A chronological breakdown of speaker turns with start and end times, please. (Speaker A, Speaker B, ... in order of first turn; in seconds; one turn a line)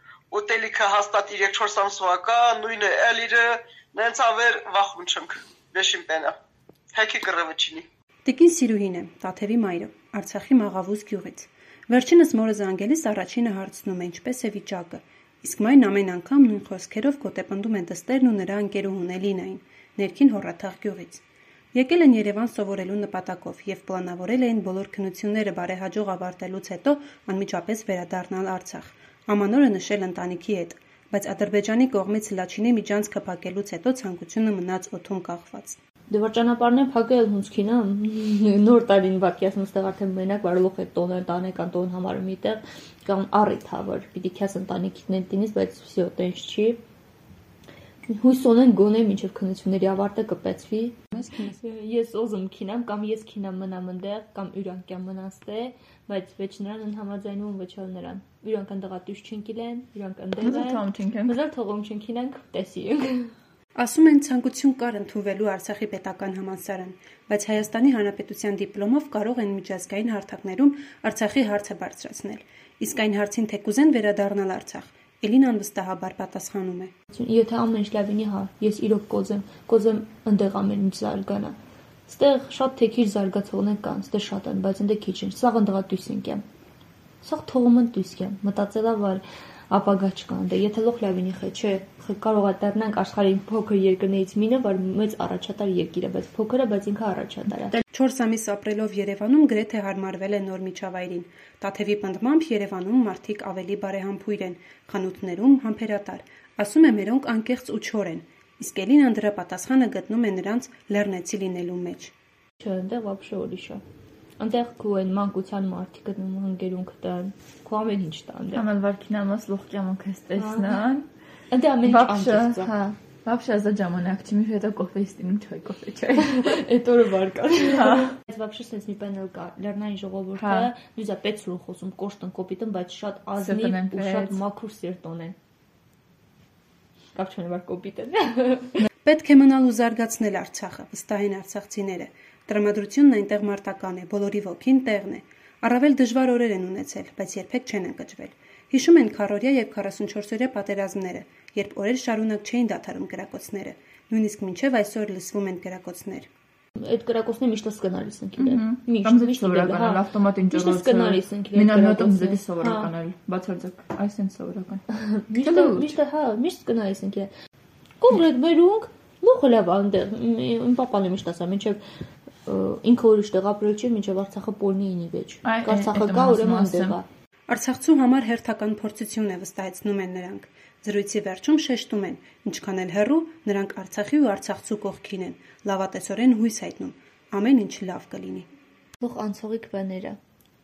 Speaker A: 0.3-6.3
Speaker A: 6.9-7.8
Speaker B: 8.2-21.2
Speaker B: 21.7-35.8
Speaker C: 36.1-46.8
Speaker C: 48.0-51.0
Speaker B: 51.1-51.6
Speaker C: 51.6-63.3
Speaker D: 60.4-61.3
Speaker B: 63.8-76.9
Speaker C: 77.1-81.5
Speaker C: 82.1-86.4
Speaker C: 87.2-97.8
Speaker B: 97.9-112.1
Speaker C: 112.6-113.8
Speaker C: 114.4-118.7
Speaker D: 118.5-121.1
Speaker C: 120.3-120.8
Speaker C: 121.5-122.8
Speaker D: 121.8-126.6
Speaker C: 126.2-135.3
Speaker D: 127.7-128.1
Speaker D: 130.4-130.7
Speaker D: 133.4-134.4
Speaker C: 137.1-138.8
Speaker B: 139.0-156.3
Speaker C: 156.8-162.9
Speaker D: 158.4-165.9
Speaker C: 164.9-167.3
Speaker C: 168.0-171.8
Speaker C: 172.4-177.0
Speaker D: 175.4-177.0
Speaker B: 177.5-188.5
Speaker C: 189.0-190.2